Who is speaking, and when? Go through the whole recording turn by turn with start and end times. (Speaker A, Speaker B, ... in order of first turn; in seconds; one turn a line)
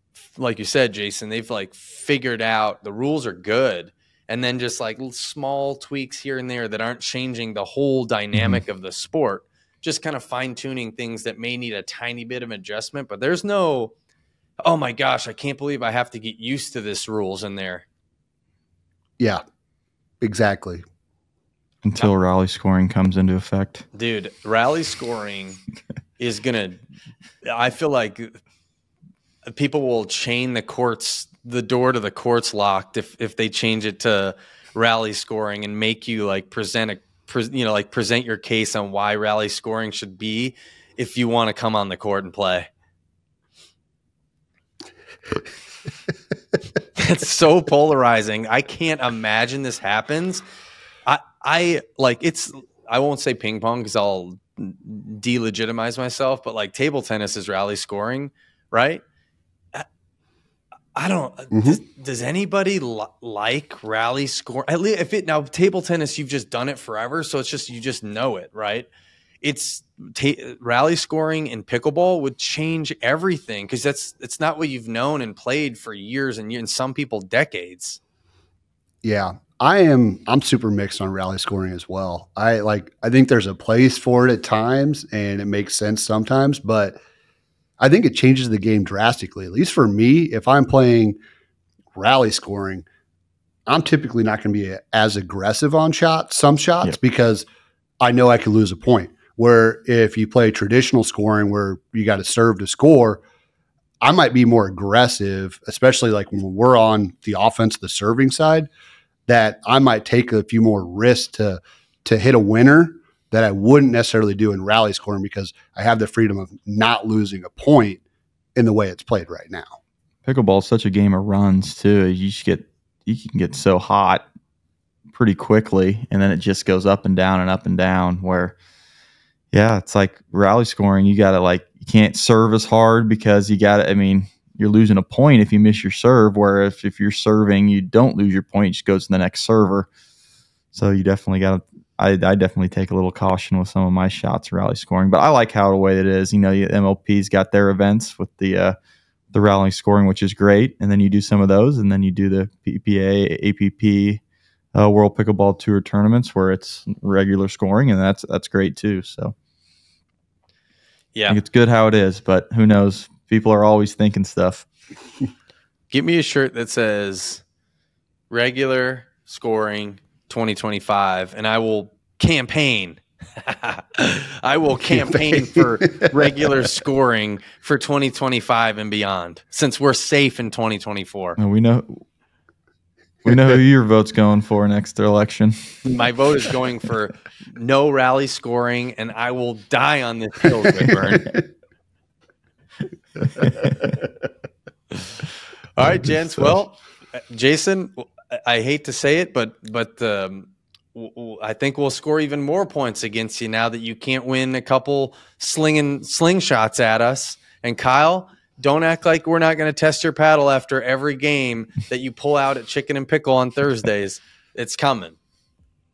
Speaker A: 0.3-13.9
Speaker B: 8.3-8.6
Speaker A: 14.6-17.8
Speaker C: 20.2-20.8
Speaker B: 21.8-23.9
Speaker A: 23.9-25.6
Speaker A: 26.2-26.8
Speaker A: 27.4-28.4
Speaker A: 29.4-42.7
Speaker A: 46.9-50.4
Speaker A: 51.0-59.0
Speaker A: 60.9-68.9
Speaker C: 61.5-61.8
Speaker A: 69.4-78.0
Speaker C: 79.0-87.0
Speaker C: 87.8-91.2
Speaker C: 91.9-92.8
Speaker C: 93.7-97.5
Speaker C: 98.0-103.2
Speaker C: 104.0-108.7
Speaker C: 109.3-118.0
Speaker C: 118.5-119.8
Speaker B: 120.2-124.2
Speaker B: 125.1-128.5
Speaker B: 129.5-139.9
Speaker B: 140.7-148.8
Speaker B: 149.3-154.2
Speaker B: 154.7-159.3
Speaker B: 161.3-164.7
Speaker A: 165.9-167.4
Speaker A: 168.3-181.4
Speaker C: 175.3-176.0
Speaker B: 181.4-182.0
Speaker B: 183.2-185.8
Speaker A: 185.8-191.3
Speaker A: 194.9-195.2
Speaker A: 195.8-215.2